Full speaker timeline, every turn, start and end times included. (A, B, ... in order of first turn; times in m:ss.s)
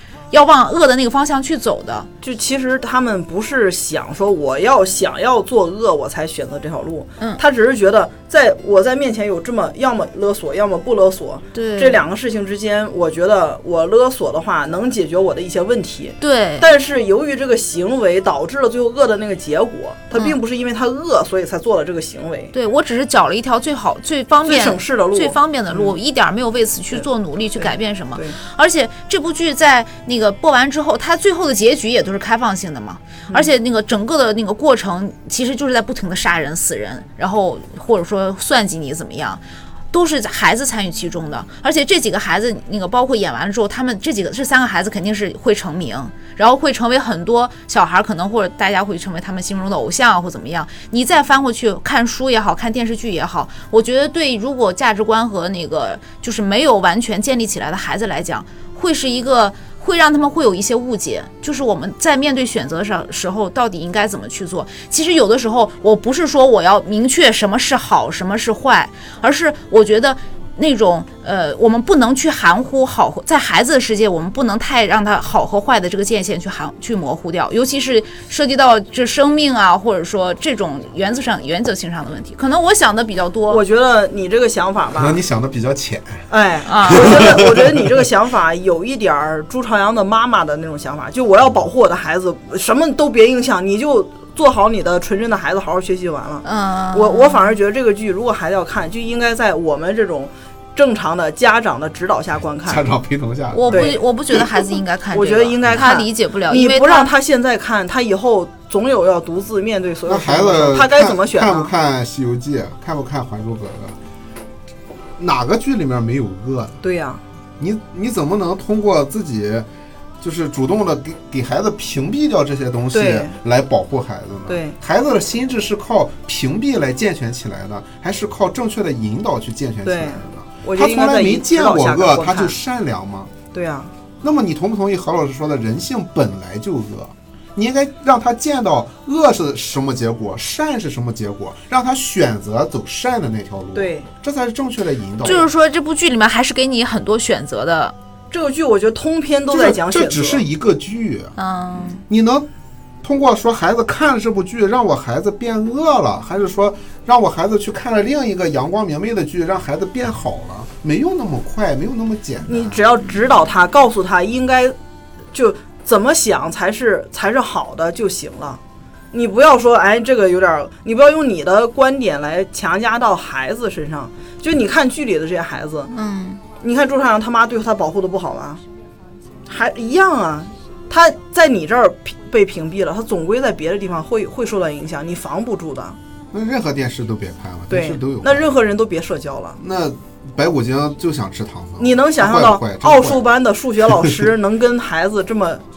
0:00.3-0:02.1 A
0:02.2-0:22.5 B
0:11.5-0:12.0 A
0:16.2-0:16.7 A
0:22.5-1:23.6 A
0:24.4-0:26.0 B
0:26.9-0:28.4 B
1:23.5-1:25.2 B
1:25.0-1:26.3 C
1:26.3-1:42.8 B
1:26.7-1:27.1 A
1:26.9-1:27.8 C
1:36.4-1:37.5 A
1:42.6-1:44.4 C
1:43.5-1:47.1 A
1:43.7-1:44.4 B
1:45.1-1:51.7 B
1:50.1-1:54.0 C
1:55.2-1:56.8 C
1:56.8-1:57.2 B
1:57.6-1:59.7 C
2:00.2-2:13.4 C
2:02.9-2:03.3 B
2:04.5-2:04.8 B
2:09.8-2:12.6 B
2:13.5-2:13.9 B
2:14.2-2:25.5 C
2:23.8-2:24.1 B
2:25.2-2:28.0 A
2:28.3-2:30.4 B
2:29.5-2:31.4 C
2:31.4-2:32.0 A
2:32.1-2:32.5 C
2:33.0-2:42.8 C
2:42.5-2:44.8 B
2:45.3-2:48.6 B
2:49.1-2:55.9 B
2:55.9-2:56.4 A
2:56.6-2:58.6 B
2:59.5-3:06.0 B
3:06.3-3:08.6 C
3:07.7-3:09.6 B
3:09.6-3:13.3 C
3:11.8-3:15.6 B
3:13.8-3:14.3 C